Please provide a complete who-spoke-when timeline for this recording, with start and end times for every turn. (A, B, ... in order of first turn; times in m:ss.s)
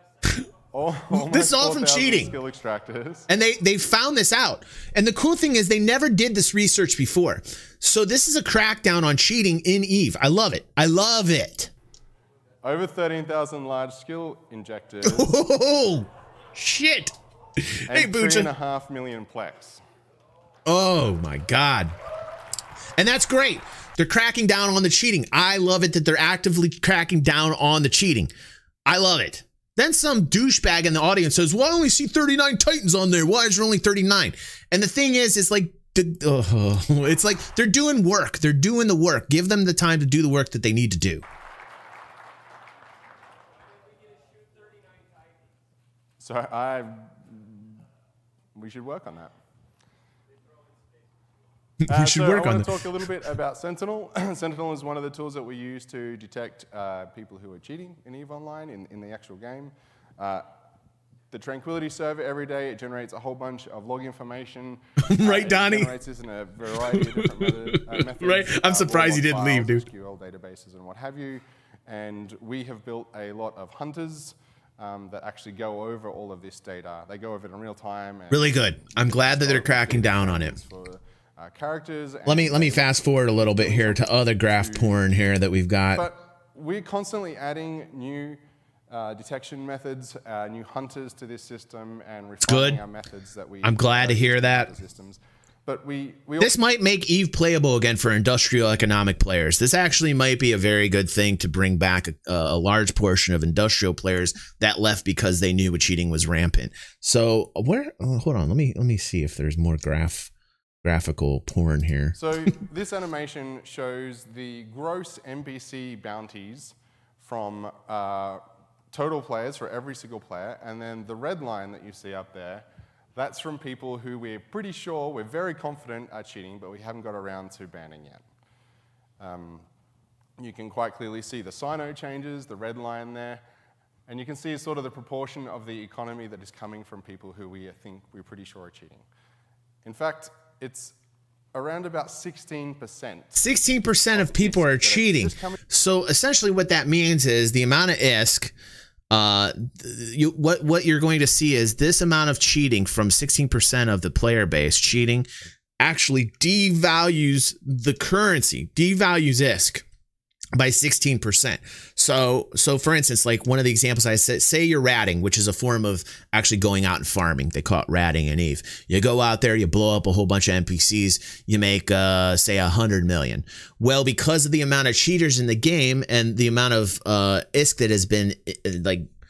0:00.7-0:03.3 A
0:01.1-0:02.4 B
0:03.3-0:11.7 B
0:12.6-0:15.3 A
0:15.0-0:18.5 B
0:17.9-0:19.8 A
0:20.6-0:21.9 B
0:23.0-0:28.3 B
0:28.8-0:41.2 B
0:46.2-0:47.8 A
0:48.5-0:49.3 A
0:51.8-0:53.0 B
0:51.9-1:00.4 A
1:01.3-1:25.0 A
1:05.0-1:05.9 B
1:06.9-1:09.8 B
1:18.3-1:20.6 B
1:22.2-1:26.0 B
1:25.9-1:36.5 A
1:32.4-1:32.8 B
1:33.6-1:34.7 B
1:36.4-1:50.3 B
1:50.8-1:52.2 B
1:52.1-2:08.2 A
2:09.2-2:09.7 A
2:10.4-2:13.4 A
2:14.1-2:19.0 A
2:19.8-2:21.0 A
2:21.5-2:23.4 A
2:23.3-2:28.5 B
2:24.1-2:25.6 A
2:29.1-2:35.3 B
2:35.8-2:39.8 B
2:40.6-2:59.0 B